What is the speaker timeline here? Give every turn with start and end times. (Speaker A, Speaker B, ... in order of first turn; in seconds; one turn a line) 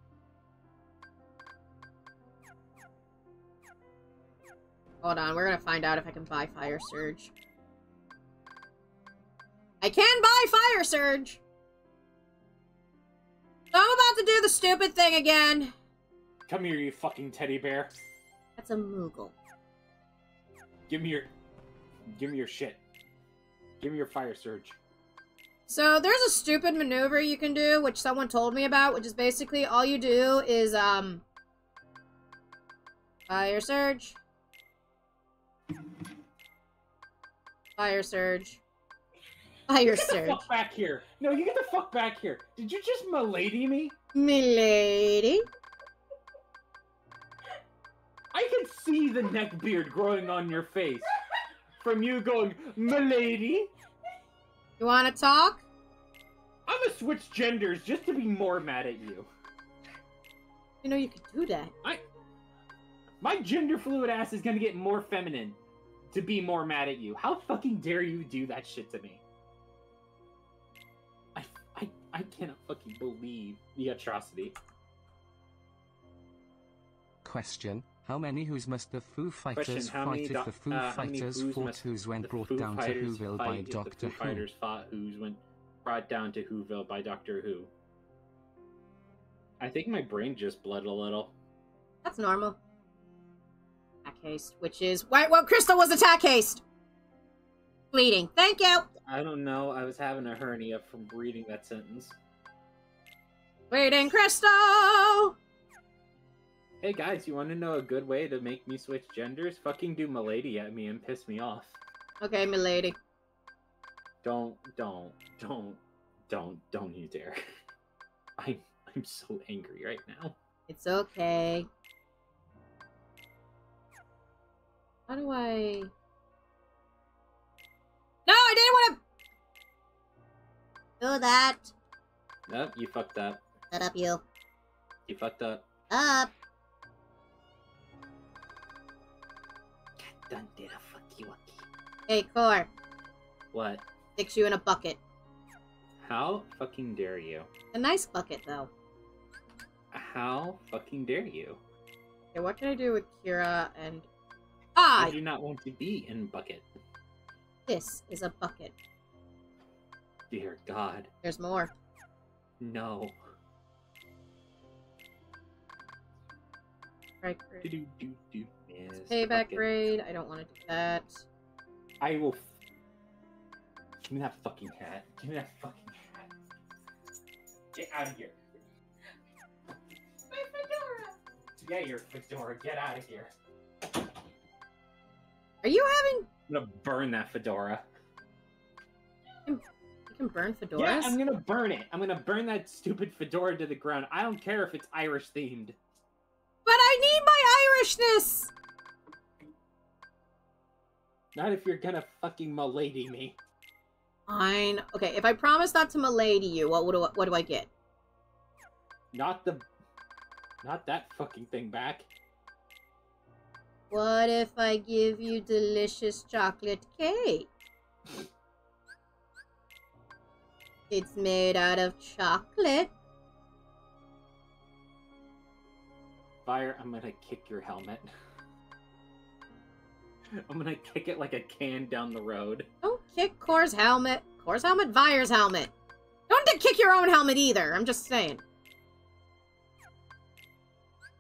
Speaker A: 5.0-7.3
Speaker A: 9.8-11.4
Speaker A: 13.7-15.7
Speaker B: 16.5-17.9
Speaker A: 18.6-19.4
Speaker B: 20.9-21.3
Speaker B: 22.1-22.8
Speaker B: 23.8-24.8
Speaker A: 25.7-31.2
Speaker A: 33.3-34.2
Speaker A: 37.8-38.6
Speaker A: 39.7-40.4
Speaker B: 39.9-44.0
Speaker A: 44.1-45.5
Speaker B: 48.3-51.1
Speaker B: 51.8-53.7
Speaker A: 54.8-55.6
Speaker B: 56.7-59.3
Speaker A: 60.8-61.7
Speaker B: 63.2-65.6
Speaker B: 66.1-69.2
Speaker B: 71.3-74.5
Speaker C: 77.2-84.5
Speaker B: 79.5-87.7
Speaker B: 89.6-91.3
Speaker A: 92.0-92.6
Speaker A: 94.0-96.6
Speaker A: 97.9-98.9
Speaker B: 99.1-102.2
Speaker A: 103.7-105.4
Speaker B: 106.8-111.8
Speaker A: 112.2-113.0
Speaker B: 114.2-117.4
Speaker B: 118.4-120.4
Speaker A: 120.7-121.7
Speaker A: 125.1-125.9
Speaker A: 128.3-129.0
Speaker A: 131.0-131.7
Speaker B: 132.5-133.4
Speaker A: 133.7-134.2
Speaker B: 135.1-135.7
Speaker A: 135.9-136.3
Speaker B: 140.0-141.7
Speaker A: 142.1-142.7
Speaker B: 143.5-143.8
Speaker A: 144.2-145.0
Speaker B: 146.0-147.5
Speaker A: 147.7-148.7
Speaker B: 149.9-151.6
Speaker A: 152.3-154.1
Speaker A: 154.8-155.2
Speaker B: 155.0-156.7
Speaker A: 157.7-158.7
Speaker B: 160.3-161.1
Speaker A: 161.2-161.7
Speaker B: 162.6-163.2
Speaker A: 167.2-167.7
Speaker B: 167.6-169.7
Speaker A: 169.0-171.2
Speaker B: 172.0-172.5
Speaker B: 174.1-176.3
Speaker B: 177.7-178.4
Speaker A: 180.3-181.0
Speaker B: 181.6-183.3
Speaker A: 185.6-186.3
Speaker B: 186.5-187.9
Speaker A: 189.5-191.2
Speaker B: 190.8-195.8
Speaker A: 196.7-198.5
Speaker B: 201.3-203.4
Speaker A: 204.3-207.7
Speaker B: 209.1-209.7
Speaker B: 210.6-212.1
Speaker A: 213.9-217.5
Speaker A: 220.9-222.9
Speaker B: 226.5-228.1
Speaker B: 230.3-232.7
Speaker A: 232.8-235.7
Speaker A: 236.3-238.4